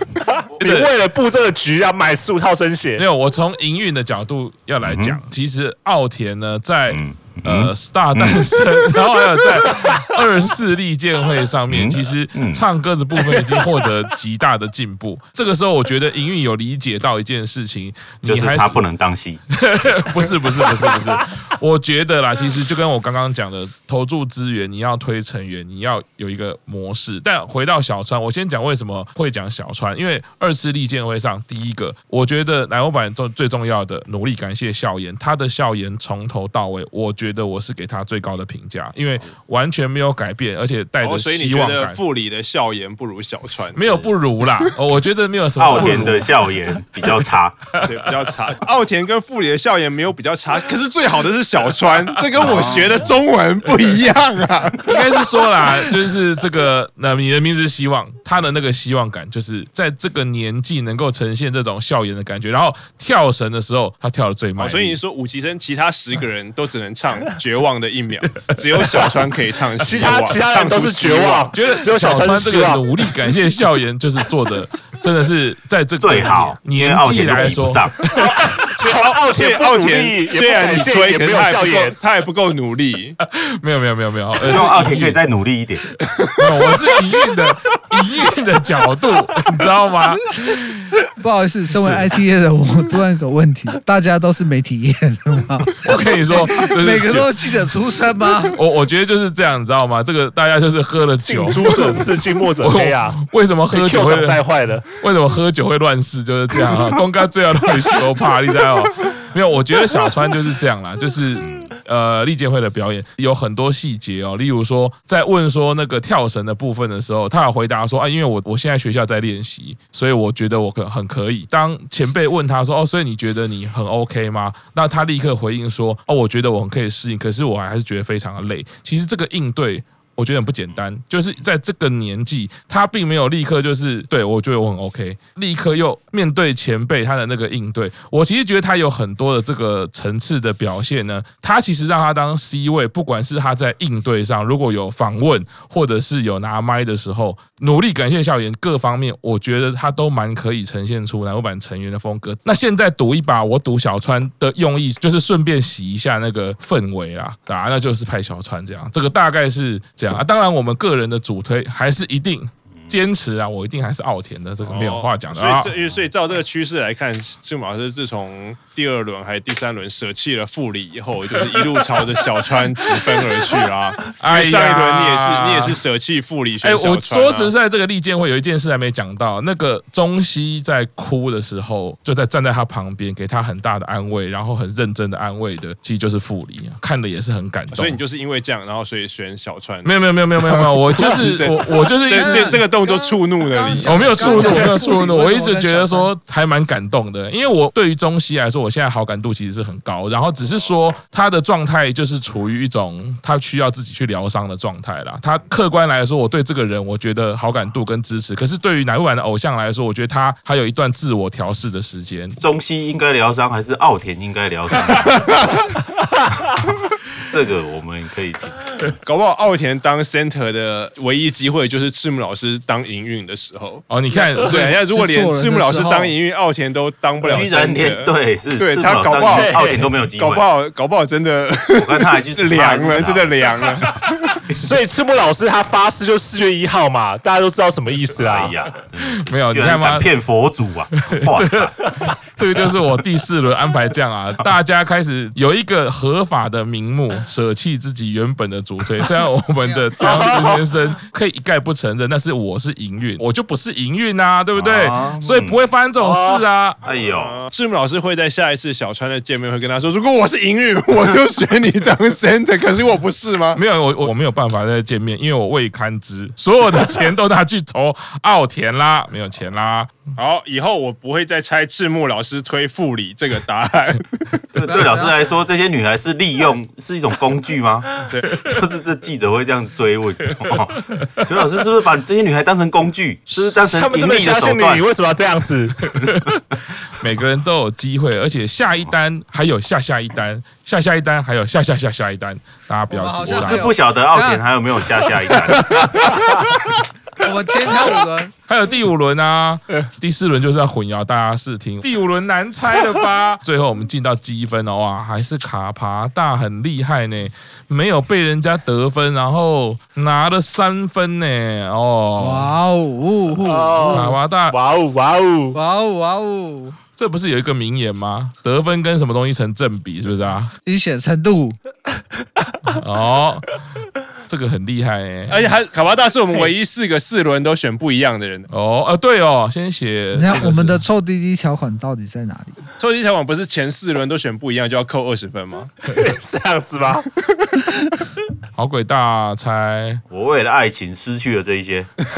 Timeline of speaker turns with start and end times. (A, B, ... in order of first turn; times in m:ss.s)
0:00.4-0:03.0 A
0:00.6-0:00.9 B
0:03.0-0:18.8 B
0:04.8-0:05.2 C
0:06.9-0:08.6 C
0:11.7-0:12.6 C
0:18.2-0:20.4 C
0:19.5-0:42.0 B
0:41.0-0:44.0 D
0:43.7-0:46.4 B
0:45.6-0:47.7 C
0:47.8-0:55.0 D
0:52.3-0:53.1 C
0:52.4-0:52.7 B
0:54.8-1:05.0 B
1:04.6-1:11.5 D
1:09.8-1:13.1 A
1:11.5-1:18.7 B
1:16.0-1:18.0 C
1:18.2-1:22.0 A
1:18.8-1:23.2 D
1:23.2-1:25.2 B
1:24.4-1:25.9 C
1:26.4-1:30.7 B
1:31.2-1:38.6 E
1:31.8-1:32.1 B
1:35.8-1:37.5 B
1:38.5-2:45.7 B
1:41.2-1:44.9 A
1:51.4-1:51.7 C
2:44.6-2:57.5 D
2:54.2-2:55.8 B
2:56.6-3:08.0 B
3:07.7-3:14.8 D
3:09.8-3:12.6 B
3:12.1-3:16.1 E
3:13.8-3:32.4 B
3:32.4-3:35.7 C
3:37.1-3:38.8 C
3:39.0-3:53.9 D
3:43.9-3:44.8 B
3:44.5-3:46.1 E
3:47.2-3:50.4 C
3:49.3-3:49.9 A
3:51.7-3:53.7 C
3:54.5-3:58.5 A
3:58.2-4:02.1 C
3:59.0-4:00.1 B
4:01.0-4:16.8 B
4:10.0-4:10.6 A
4:14.5-4:15.6 C
4:16.0-4:16.4 A
4:16.8-4:17.4 C
4:17.1-4:23.6 D
4:23.5-4:30.0 B
4:30.2-4:34.4 D
4:34.5-4:44.8 C
4:34.6-4:35.1 E
4:38.1-4:38.4 D
4:43.6-4:45.9 A
4:45.9-4:46.4 B
4:46.9-4:53.7 B
4:52.9-4:54.4 E
4:53.3-4:56.1 C
4:57.2-4:58.3 E
4:58.5-5:12.5 B
5:12.2-5:14.1 E
5:13.4-5:15.6 A
5:13.9-5:14.6 B
5:15.5-5:16.8 E
5:17.0-5:20.5 B
5:20.6-5:21.6 E
5:22.7-5:23.6 B
5:24.3-5:25.5 B
5:25.3-5:28.5 D
5:28.5-5:30.8 B
5:30.1-5:32.6 E
5:32.8-5:35.7 D
5:35.9-5:37.1 A
5:38.6-5:40.0 B
5:40.1-5:41.9 C